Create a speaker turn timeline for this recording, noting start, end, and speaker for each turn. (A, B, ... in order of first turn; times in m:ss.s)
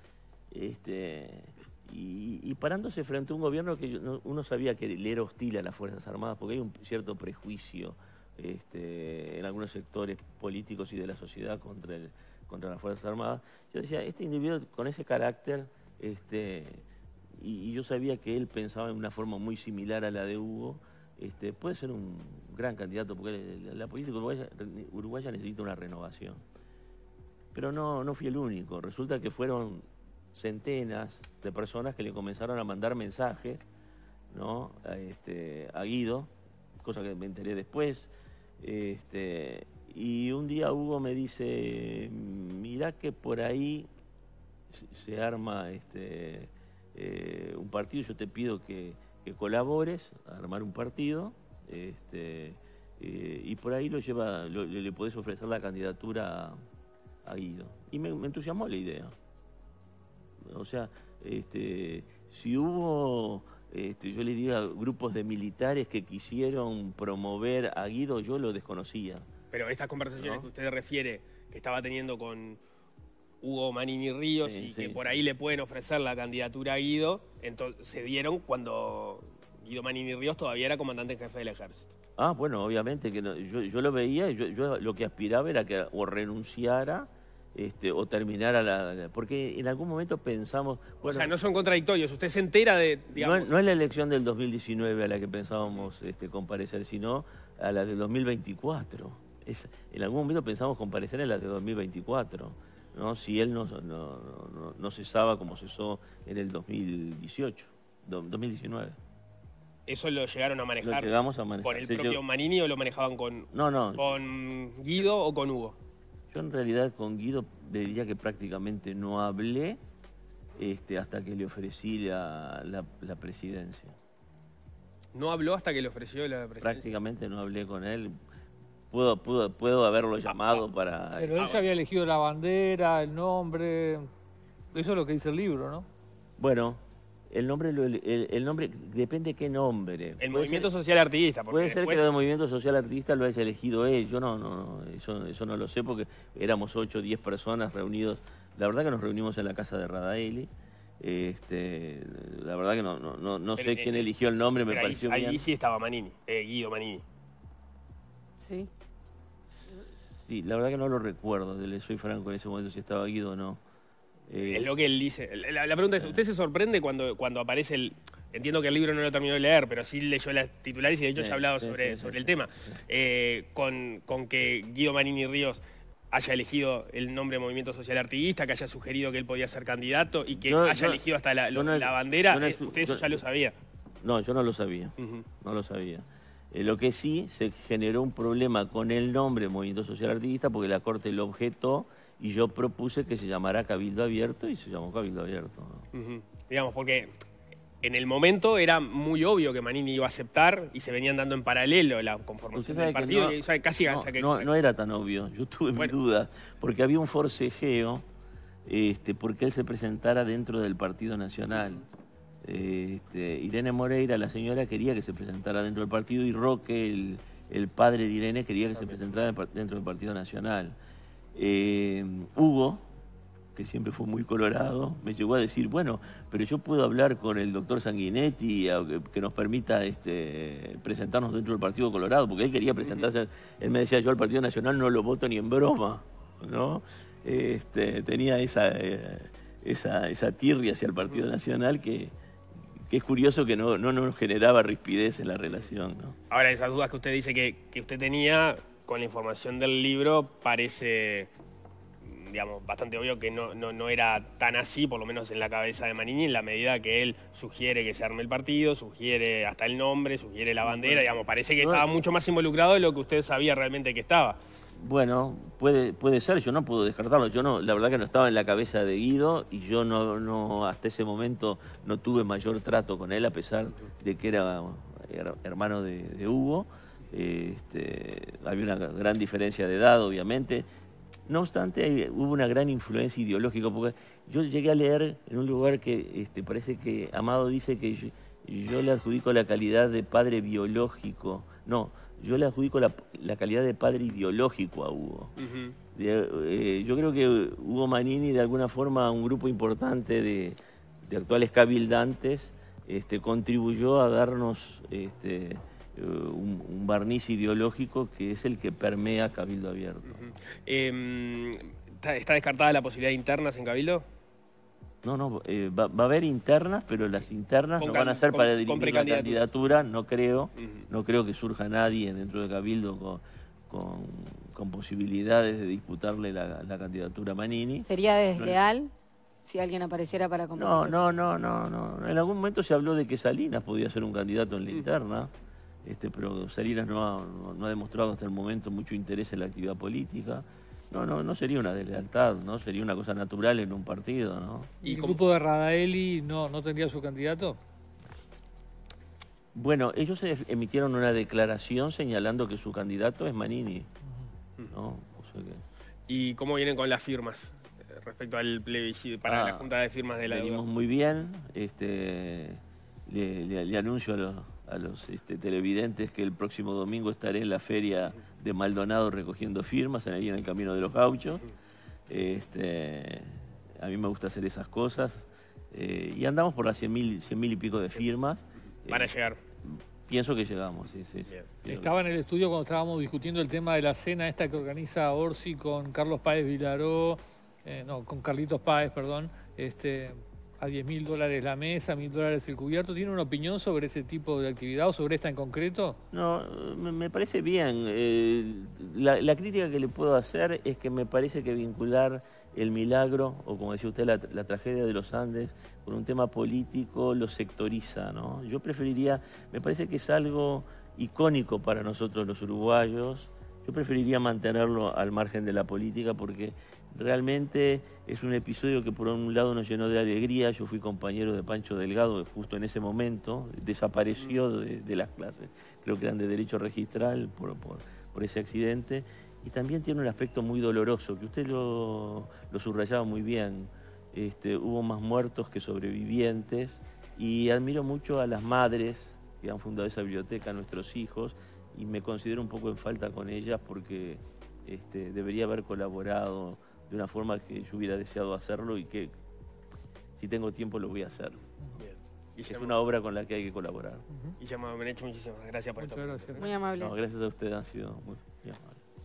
0:00.5-0:16.8 A
0:17.4-0:26.4 A
0:27.5-0:33.6 A
0:34.3-0:43.9 A
0:44.7-0:56.6 A
0:57.2-0:59.2 A
1:00.4-1:09.3 A
1:09.5-1:12.6 B
1:10.2-1:10.5 A
1:13.4-1:21.9 B
1:14.4-1:15.1 A
1:22.2-1:31.4 A
1:31.0-1:33.5 B
1:33.1-1:49.0 A
1:49.9-1:55.8 B
1:50.8-1:52.2 A
1:53.5-1:54.1 A
1:56.3-1:59.8 A
2:00.6-2:04.0 A
2:05.1-2:06.9 B
2:06.6-2:08.2 A
2:08.9-2:11.6 A
2:11.2-2:14.1 C
2:14.7-2:15.9 C
2:16.4-2:20.7 A
2:20.2-2:22.1 B
2:21.5-2:35.4 A
2:33.6-2:34.0 B
2:34.7-2:37.0 B
2:38.4-2:38.7 D
2:39.6-2:43.6 A
2:44.3-2:44.7 A
2:44.4-2:55.6 B
2:51.2-2:52.8 A
2:56.1-3:03.6 B
3:00.3-3:03.2 A
3:04.0-3:15.9 A
3:05.0-3:05.3 B
3:15.9-3:17.1 B
3:17.8-3:24.5 B
3:22.5-3:28.0 A
3:28.6-3:31.8 A
3:32.4-3:40.8 A
3:41.3-3:42.8 A
3:43.6-4:02.1 A
4:02.9-4:06.2 A
4:06.3-4:11.3 B
4:12.0-4:24.4 B
4:20.6-4:21.1 A
4:21.6-4:21.9 A
4:24.8-4:40.7 A
4:41.3-4:55.3 A
4:55.4-4:55.8 B
4:55.9-5:10.4 A
5:10.1-5:14.0 B
5:15.0-5:28.6 A
5:17.8-5:19.4 B
5:20.6-5:20.9 B
5:27.8-5:28.9 D
5:29.4-5:31.1 D
5:30.6-5:35.3 A
5:35.8-5:44.7 A
5:44.8-5:47.6 C
5:44.8-5:45.2 B
5:49.5-5:53.9 A
5:54.7-5:55.6 A
5:56.1-6:00.6 B
5:59.3-5:59.7 A
6:00.3-6:11.4 A
6:12.1-6:19.1 A
6:18.9-6:19.4 B
6:19.6-6:21.9 A
6:21.7-6:36.0 C
6:36.1-7:29.1 A
7:30.2-7:31.4 A
7:31.8-7:32.8 B
7:32.5-7:34.0 A
7:34.4-7:36.5 B
7:35.8-7:36.6 C
7:36.4-7:37.0 D
7:36.8-7:38.8 A